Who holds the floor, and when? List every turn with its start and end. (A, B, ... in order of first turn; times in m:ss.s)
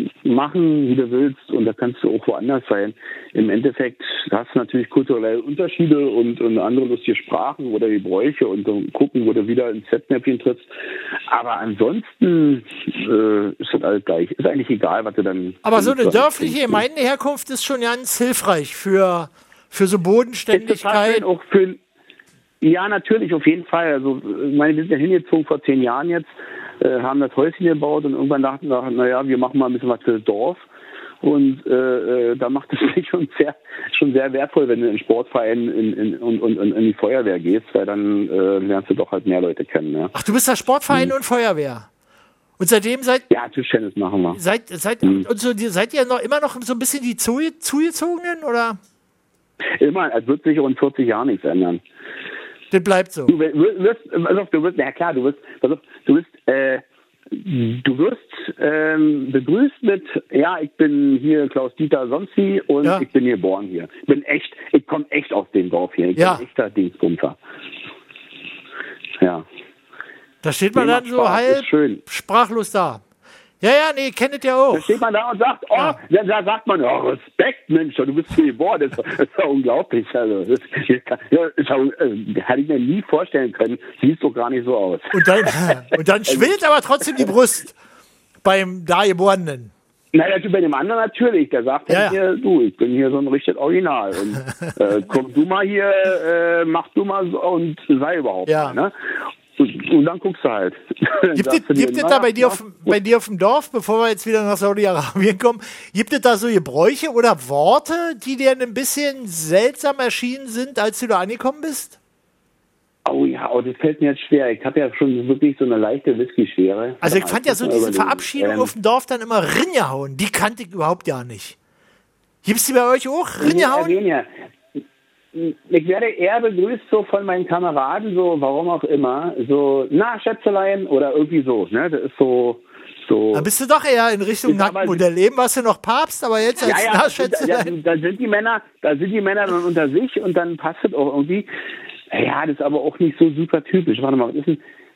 0:00.2-0:10.6 A
0:11.3-0:16.8 A
0:15.6-0:21.2 B
0:20.5-0:21.8 A
0:22.6-0:26.3 A
0:26.8-0:30.6 A
0:31.2-0:40.1 A
0:40.1-0:41.9 B
0:42.6-0:43.2 B
0:43.3-0:44.4 A
0:44.3-0:48.8 B
0:49.8-0:51.8 A
0:52.7-0:53.3 B
0:53.3-1:07.4 A
1:06.2-1:06.4 B
1:10.4-1:13.0 B
1:10.8-1:12.0 A
1:13.6-1:14.9 B
1:14.7-1:26.5 A
1:25.1-1:27.7 B
1:28.4-1:29.7 B
1:30.1-1:38.9 A
1:31.9-1:32.2 B
1:38.5-1:38.8 B
1:39.6-1:42.9 A
1:41.3-1:52.0 B
1:53.0-1:58.7 A
1:57.0-2:01.6 B
2:02.4-2:04.0 B
2:03.4-2:04.3 A
2:05.3-2:13.5 A
2:13.3-2:17.7 B
2:14.4-2:15.0 A
2:16.6-2:21.5 A
2:22.1-2:24.6 A